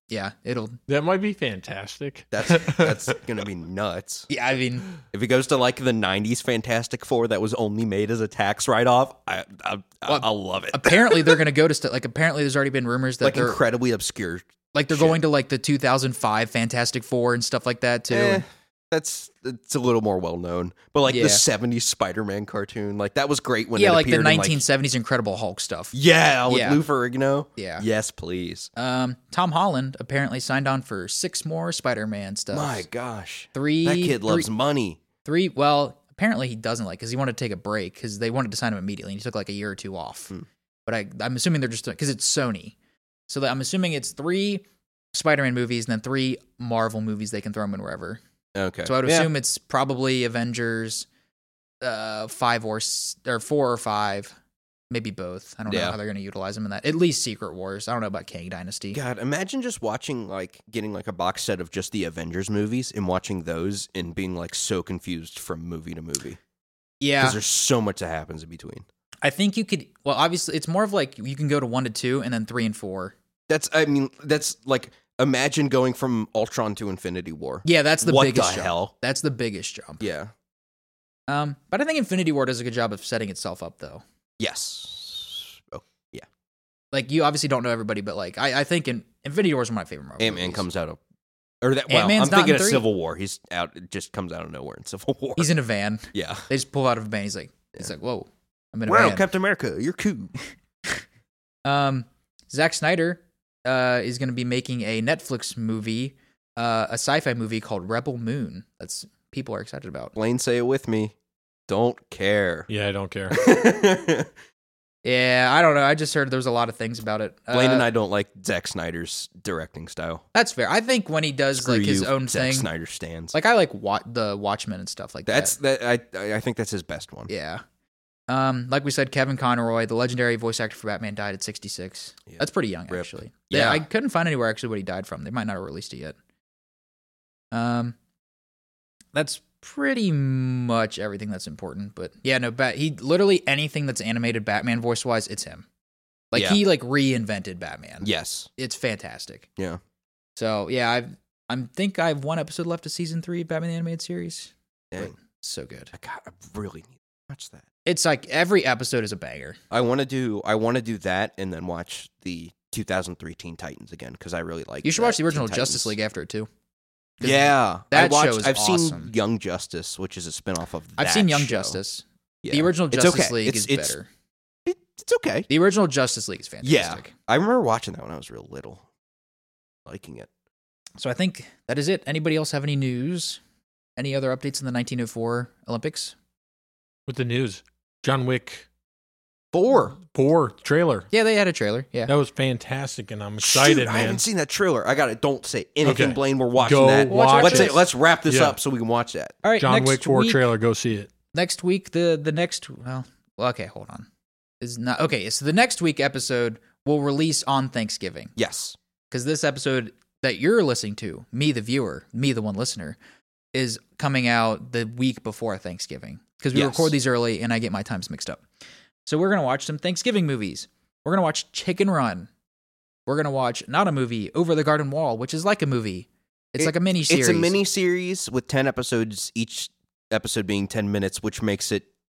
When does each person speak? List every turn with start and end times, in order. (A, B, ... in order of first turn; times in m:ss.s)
0:00.1-0:00.8 A
0:00.9-0:03.2 B
0:02.3-0:04.3 C
0:04.3-0:04.9 A
0:05.0-0:11.4 C
0:10.1-0:13.6 A
0:13.2-0:15.2 C
0:14.7-0:18.4 A
0:18.1-0:24.6 C
0:21.1-0:21.4 A
0:23.8-0:25.9 A
0:25.9-0:28.7 C
0:26.5-0:26.8 A
0:27.6-0:27.8 A
0:28.8-0:32.8 A
0:32.5-0:35.0 C
0:33.5-0:34.5 A
0:35.2-0:42.8 A
0:43.3-0:48.2 A
0:48.6-0:49.3 C
0:48.8-0:51.1 A
0:51.8-0:54.4 A
0:54.9-0:59.0 A
0:55.7-0:56.0 C
0:58.9-1:06.4 C
1:07.0-1:07.4 A
1:07.2-1:08.8 C
1:09.2-1:13.1 A
1:13.5-1:18.9 C
1:17.6-1:20.1 A
1:20.0-1:20.3 C
1:21.3-1:24.0 A
1:24.4-1:26.3 C
1:26.9-1:30.6 A
1:30.2-1:31.0 C
1:31.6-1:35.5 C
1:31.9-1:32.8 A
1:35.4-1:39.2 A
1:36.1-1:36.5 C
1:38.9-1:40.3 C
1:41.6-1:50.2 A
1:50.2-1:51.1 C
1:51.7-1:52.7 C
1:52.7-1:53.4 B
1:53.3-1:54.3 C
1:55.0-1:57.9 A
1:57.5-2:00.2 C
2:00.3-2:02.7 A
2:01.5-2:03.3 C
2:03.3-2:05.5 A
2:05.2-2:07.3 C
2:07.3-2:07.6 A
2:08.3-2:16.2 A
2:12.3-2:13.8 C
2:17.5-2:18.0 A
2:19.1-2:25.6 A
2:26.3-2:29.5 A
2:26.3-2:26.6 C
2:28.0-2:28.5 C
2:30.4-2:35.9 A
2:35.9-2:37.6 C
2:37.8-2:39.6 A
2:39.7-2:45.9 C
2:44.8-2:46.5 A
2:47.2-2:49.1 A
2:47.2-2:51.8 C
2:51.0-2:54.1 A
2:52.4-2:54.0 C
2:54.6-2:55.5 C
2:55.5-2:57.1 A
2:56.6-2:58.8 C
2:59.8-3:00.3 C
3:01.0-3:03.4 A
3:04.0-3:06.1 A
3:07.1-3:08.6 B
3:09.5-3:10.0 C
3:09.9-3:11.1 B
3:11.1-3:12.1 A
3:12.1-3:14.2 B
3:13.4-3:19.4 C
3:15.8-3:18.6 B
3:17.1-3:17.8 A
3:19.4-3:20.4 A
3:19.6-3:21.1 B
3:21.3-3:24.1 A
3:24.6-3:28.3 A
3:28.4-3:28.8 C
3:29.1-3:33.0 A
3:33.5-3:38.4 A
3:36.5-3:36.9 C
3:39.0-3:42.3 A
3:43.1-3:47.5 A
3:46.6-3:51.9 C